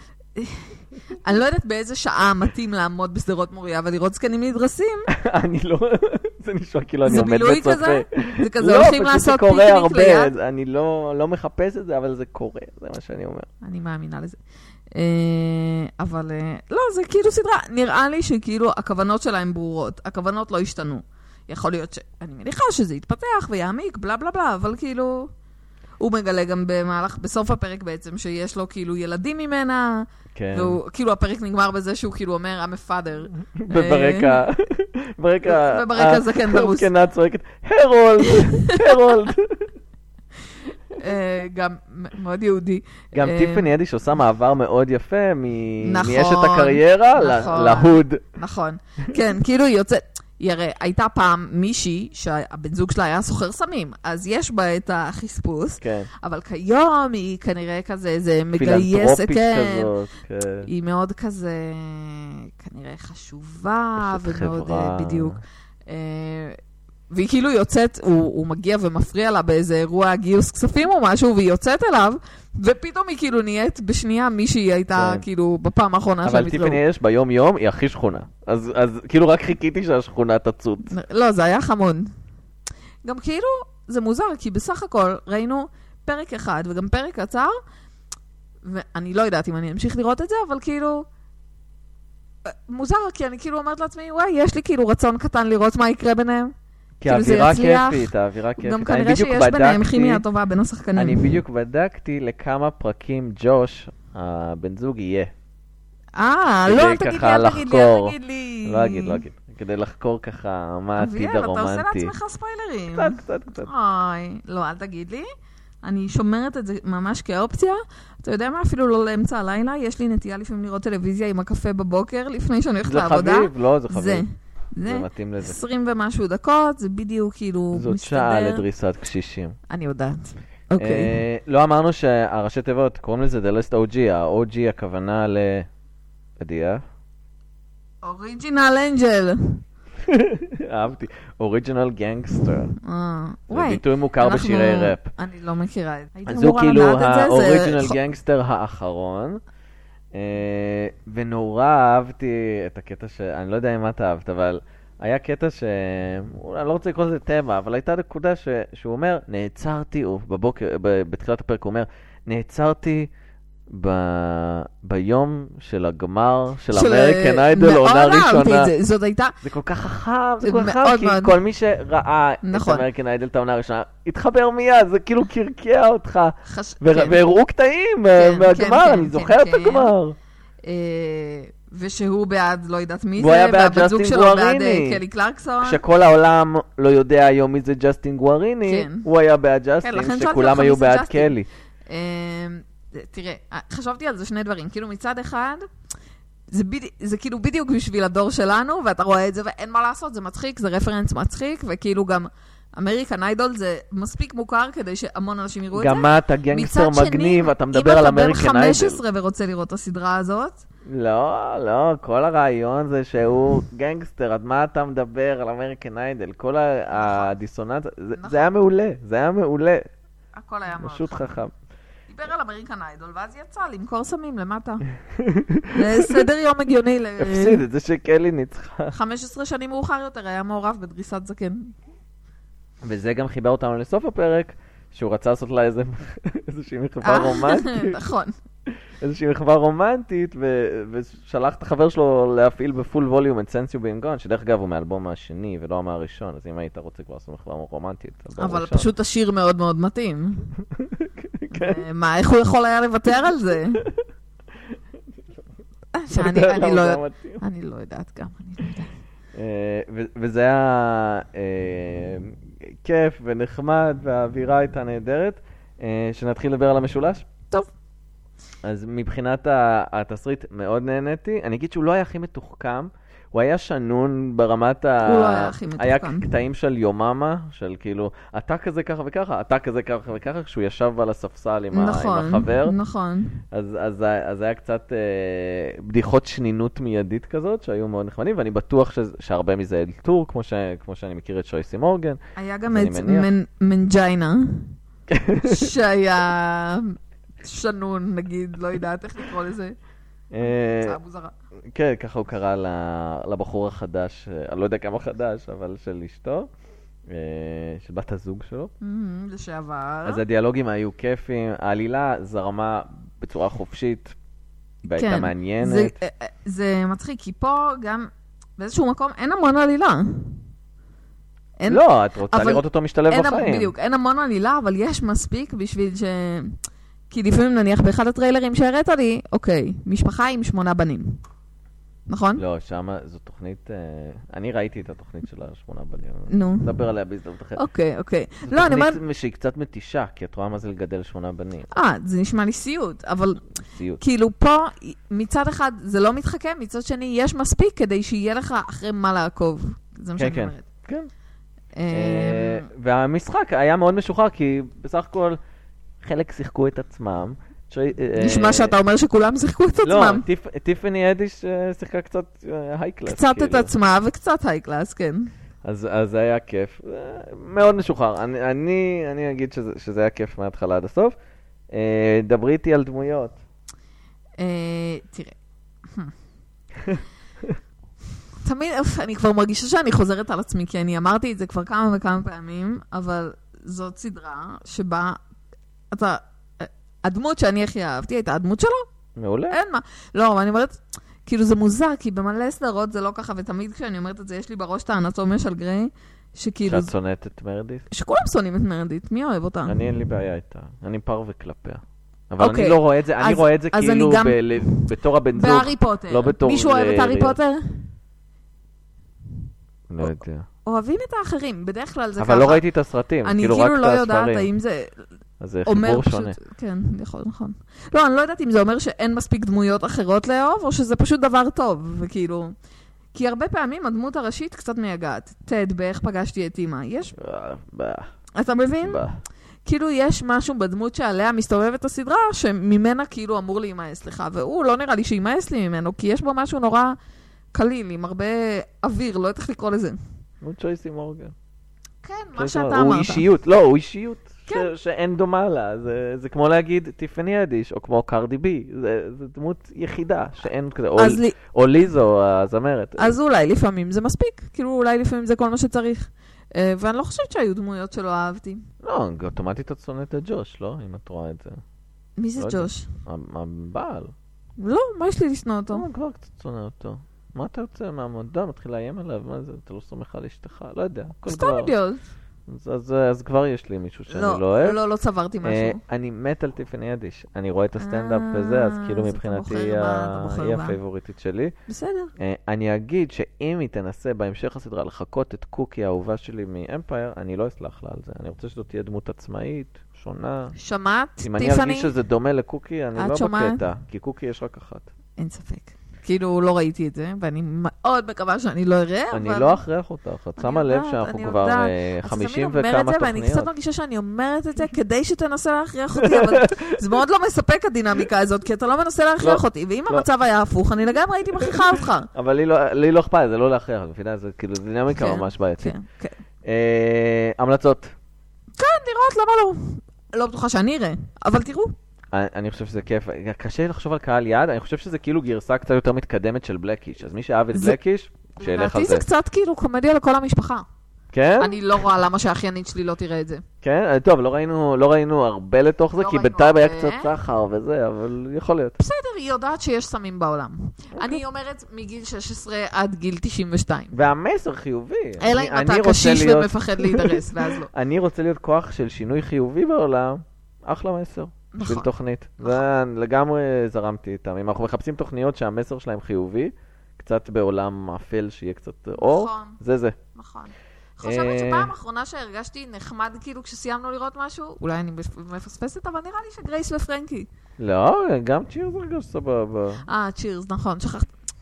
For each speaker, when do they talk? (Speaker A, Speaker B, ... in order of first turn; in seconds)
Speaker A: 0.3-5.1, 7.0-10.3, 13.6-14.4, 14.9-25.3, 26.0-34.4, 35.5-36.9, 38.2-39.1, 40.9-43.7, 45.8-59.9, 60.6-66.6, 67.1-76.8, 80.9-82.1, 83.0-87.6, 88.6-91.0, 92.4-96.5, 97.0-101.3, 106.2-109.2, 111.0-115.2, 115.8-128.6, 129.7-131.1, 138.0-139.6, 142.8-148.0, 166.7-169.4, 170.4-171.3, 172.4-172.8, 176.4-177.2, 178.1-179.9, 180.6-185.8, 188.6-189.1, 189.8-191.3, 191.9-195.7, 196.5-210.6, 216.9-217.3, 218.2-218.5, 220.3-221.3, 222.1-224.8, 225.7-227.6, 228.9-231.7, 237.0-238.3, 248.4-250.5, 251.5-253.8, 255.9-258.9, 275.0-276.3, 281.7-283.4, 292.4-294.7, 295.4-299.7, 300.4-301.3, 308.8-310.2, 314.9-320.4, 321.6-326.6, 327.1-331.2, 332.1-332.4, 336.3-336.7, 337.6-339.0, 341.7-343.4, 344.0-350.7, 351.7-352.7, 358.1-360.2, 363.1-365.3, 374.4-375.3, 375.9-376.1, 378.4-385.2, 385.9-388.8, 389.5-396.9, 397.9-399.8, 402.4-407.8, 410.6-412.6, 413.2-415.0, 415.6-422.5, 423.1-427.1, 428.4-429.0, 429.6-437.0, 437.5-440.0, 442.0-443.2, 451.0-451.4, 453.0-458.7, 462.2-462.9, 464.6-465.9, 471.2-472.0, 474.1-475.8, 477.8-480.8, 481.7-482.1, 490.6-491.9, 492.9-493.6, 495.2-499.6, 500.4-512.1, 514.9-516.2, 518.6-521.7, 528.4-530.6, 531.4-533.4, 536.0-537.1, 538.8-543.9, 545.2-547.7, 551.5-551.9, 559.0-559.6, 560.1-567.3, 569.9-571.1
Speaker B: 5.1-13.5, 30.3-30.8, 33.6-39.7, 43.1-48.2, 55.8-56.1, 58.5-60.7, 64.0-65.4, 74.9-75.2, 76.2-80.9, 97.0-100.2, 101.0-105.3, 106.7-112.1, 112.9-113.7, 122.8-124.2, 124.8-125.6, 127.7-129.6, 130.8-135.7, 136.4-136.8, 140.0-142.7, 143.5-145.1, 146.3-149.4, 150.1-163.1, 163.7-168.7, 169.4-180.2, 183.2-185.0, 185.6-191.5, 205.7-209.0, 210.8-219.9, 220.7-221.5, 225.1-226.2, 227.2-228.9, 232.8-238.0, 238.7-248.9, 250.7-251.8, 256.1-257.4, 259.3-267.2, 268.6-282.8, 283.5-292.2, 292.7-293.3, 295.1-295.7, 300.3-301.0, 301.7-306.5, 307.1-308.7, 310.1-314.1, 314.9-315.9, 321.7-323.7, 332.4-337.6, 338.5-341.7, 343.6-344.0, 350.2-351.1, 351.9-355.4, 356.0-358.7, 359.8-363.7, 365.6-371.1, 371.7-373.4, 376.8-377.5, 389.1-389.6, 396.6-397.8, 399.6-407.4, 409.9-410.5, 412.2-414.5, 415.4-416.4, 427.1-428.1, 428.8-429.2, 440.4-441.3, 442.4-453.1, 458.8-461.6, 462.4-464.1, 465.7-471.7, 472.5-474.8, 475.4-481.5, 482.2-490.5, 491.2-494.9, 499.1-503.5, 506.0-506.7, 509.2-510.1, 511.4-515.7, 516.4-517.9, 522.1-529.0, 531.1-531.8, 533.6-538.8, 543.9-560.0, 561.0-561.7, 567.6-569.8